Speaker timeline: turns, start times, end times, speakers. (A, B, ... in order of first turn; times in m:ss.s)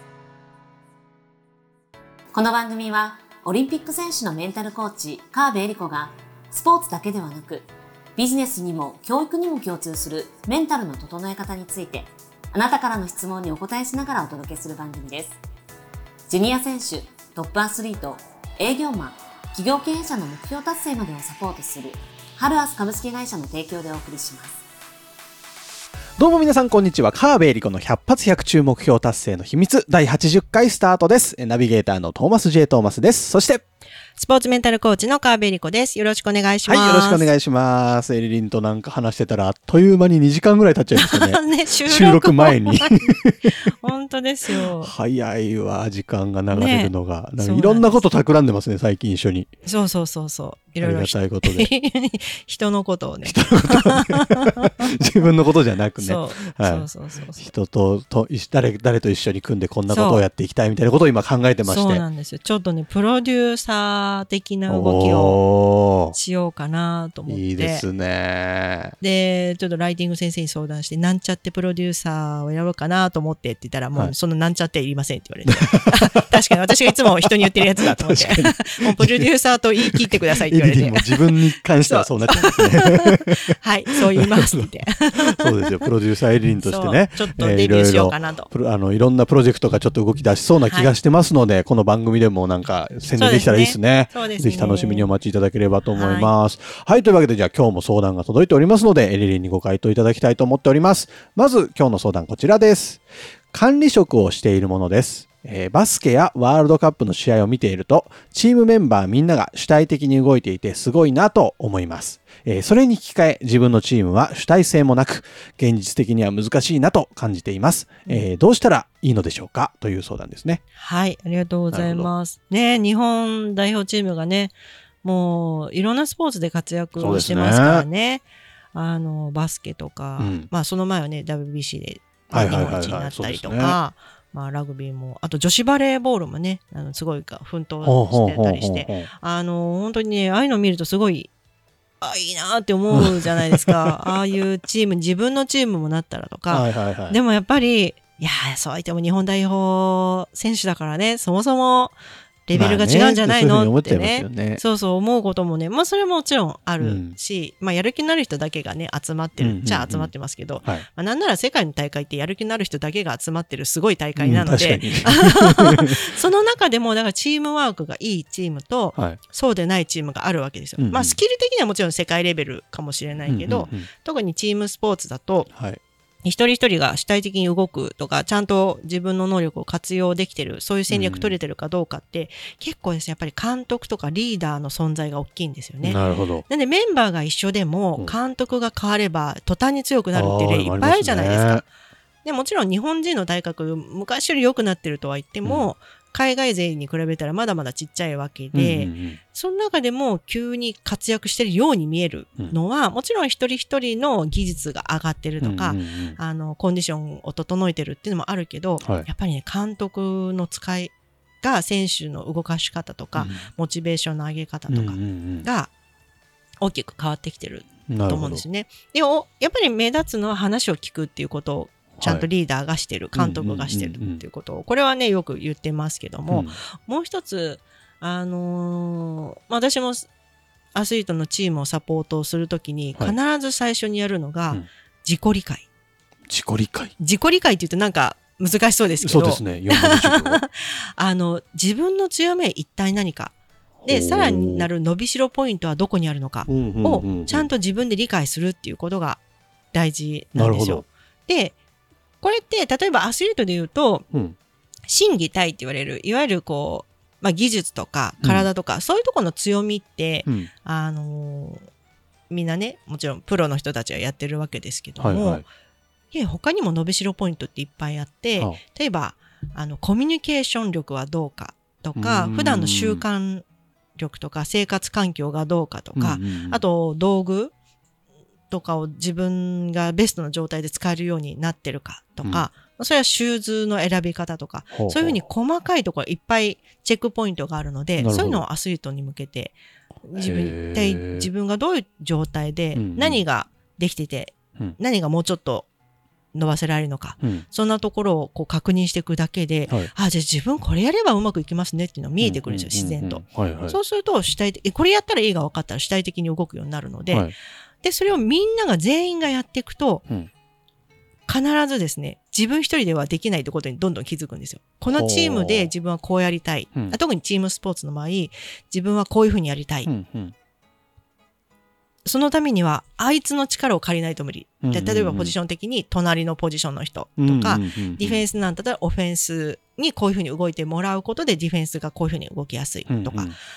0:02.3-0:15.4 A
0:16.3-0:24.6 A
0:26.2-0:33.6 B
0:34.2-0:37.3 C
0:36.6-0:43.5 B
0:41.0-0:44.9 C
0:44.6-0:49.5 B
0:46.5-0:48.0 C
0:49.6-0:54.8 C
0:50.8-0:51.7 B
0:53.2-1:02.0 B
0:56.0-0:57.5 C
0:59.9-1:00.2 C
1:01.6-1:05.4 C
1:04.7-1:06.2 B
1:06.1-1:07.9 C
1:07.3-1:08.9 B
1:09.0-1:25.8 C
1:15.5-1:15.9 B
1:17.8-1:19.3 B
1:19.9-1:23.6 B
1:24.2-1:24.7 B
1:25.3-1:43.0 B
1:26.6-1:28.5 C
1:30.6-1:30.9 C
1:33.1-1:35.1 C
1:35.8-1:36.3 C
1:43.5-2:00.6 B
2:00.7-2:21.3 C
2:01.7-2:02.1 B
2:07.0-2:07.8 B
2:10.2-2:10.5 B
2:12.3-2:13.8 B
2:17.8-2:19.1 B
2:22.0-2:55.5 C
2:22.9-2:24.0 B
2:26.5-2:27.2 B
2:32.5-2:34.6 B
2:36.8-2:37.2 B
2:39.4-2:40.8 B
2:44.2-2:46.0 B
2:50.8-2:51.2 B
2:53.3-2:53.9 B
2:55.5-2:55.8 B
2:56.2-3:11.7 C
3:00.9-3:01.3 B
3:05.8-3:06.4 B
3:10.1-3:11.6 B
3:12.2-3:35.7 C
3:18.5-3:19.2 B
3:25.4-3:26.2 B
3:33.1-3:33.5 B
3:34.7-3:35.4 B
3:36.6-3:50.1 C
3:37.9-3:38.4 B
3:42.0-3:42.3 B
3:43.1-3:44.2 B
3:46.3-3:46.6 B
3:50.7-3:55.6 C
3:56.3-3:56.9 B
3:57.0-4:09.2 C
3:59.0-4:00.4 B
4:03.8-4:04.7 B
4:06.4-4:07.5 B
4:09.7-4:11.6 C
4:10.3-4:10.8 B
4:12.2-4:14.1 C
4:14.9-4:21.6 C
4:18.2-4:18.5 B
4:20.2-4:20.5 B
4:22.3-4:25.4 C
4:25.0-4:25.4 B
4:26.1-4:33.4 C
4:31.9-4:33.0 B
4:34.0-4:37.5 C
4:35.9-4:36.6 B
4:38.5-4:55.7 C
4:44.7-4:45.2 B
4:48.0-4:48.4 B
4:50.2-4:51.3 B
4:52.7-4:53.2 B
4:56.3-5:10.0 C
5:02.2-5:03.8 B
5:11.3-5:19.9 C
5:14.9-5:15.7 B
5:19.8-5:20.3 B
5:22.0-5:33.3 C
5:24.6-5:25.4 B
5:27.2-5:28.2 B
5:32.9-5:33.3 B